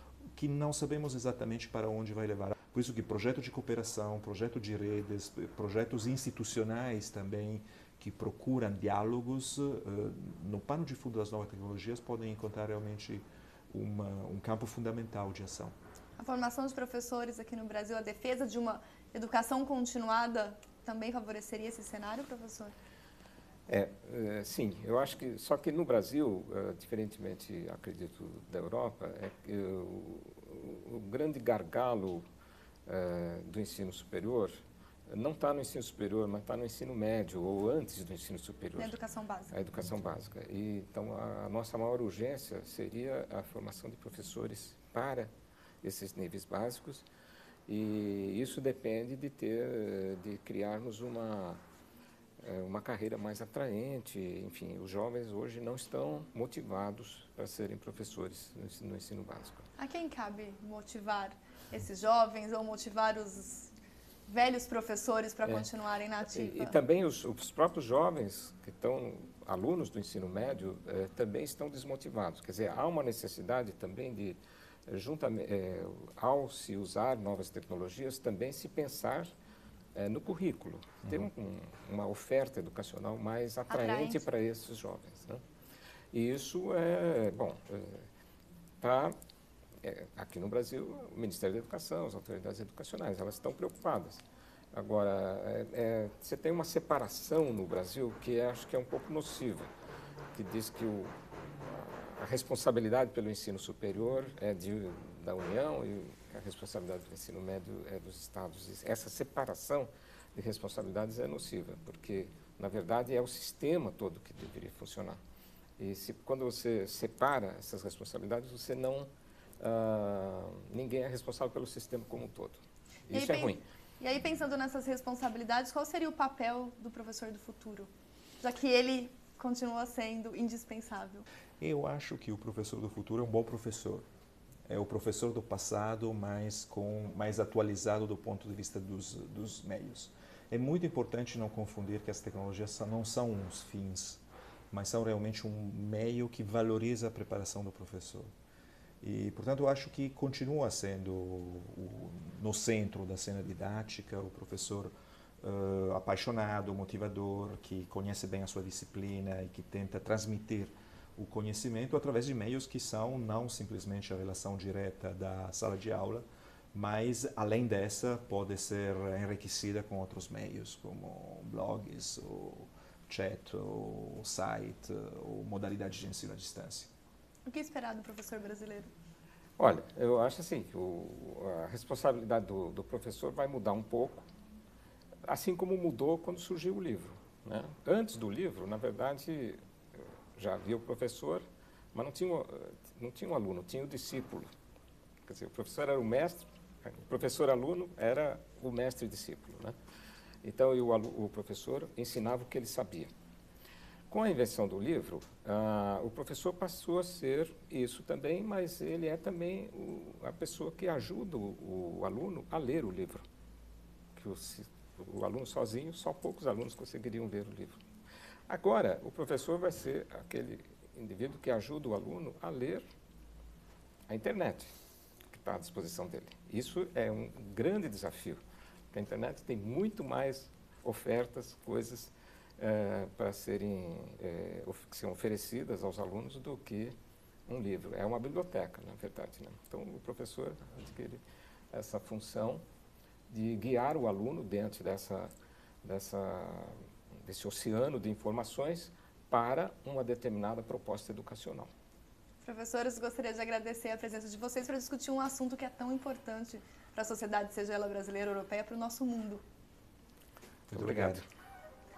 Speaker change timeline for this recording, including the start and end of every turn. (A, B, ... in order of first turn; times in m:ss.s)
0:00.4-0:15.8 A
0:16.2-0:22.7 B
0:23.7-0:32.2 C
0:32.9-0:34.6 C
0:35.1-0:39.0 C
0:38.8-0:39.5 B
0:39.5-0:45.3 C
0:45.8-0:47.0 C
0:47.7-0:51.6 C
0:52.4-0:59.7 C
0:59.8-1:03.7 B
1:04.3-1:06.8 B
1:06.2-1:19.3 C
1:20.0-1:25.4 C
1:23.7-1:24.2 B
1:26.1-1:28.1 C
1:28.8-1:29.2 C
1:29.8-1:39.7 C
1:40.3-1:55.2 C
1:55.8-1:59.1 C
1:59.6-2:03.6 C
2:03.1-2:07.9 B
2:08.4-2:11.2 B
2:11.6-2:14.0 A
2:14.7-2:28.3 A
2:29.0-2:56.9 A
2:57.5-2:58.9 B
2:59.6-3:04.3 C
3:05.2-3:14.5 C
3:15.3-3:19.8 C
3:20.4-3:23.1 C
3:24.1-3:33.2 C
3:34.2-3:37.8 C
3:38.5-3:42.8 C
3:44.1-3:44.7 C
3:45.3-3:48.4 C
3:48.9-3:57.0 C
3:57.5-4:02.6 C
4:03.3-4:05.3 C
4:05.8-4:11.7 C
4:12.4-4:19.4 B
4:20.7-4:21.2 A
4:20.7-4:21.2 C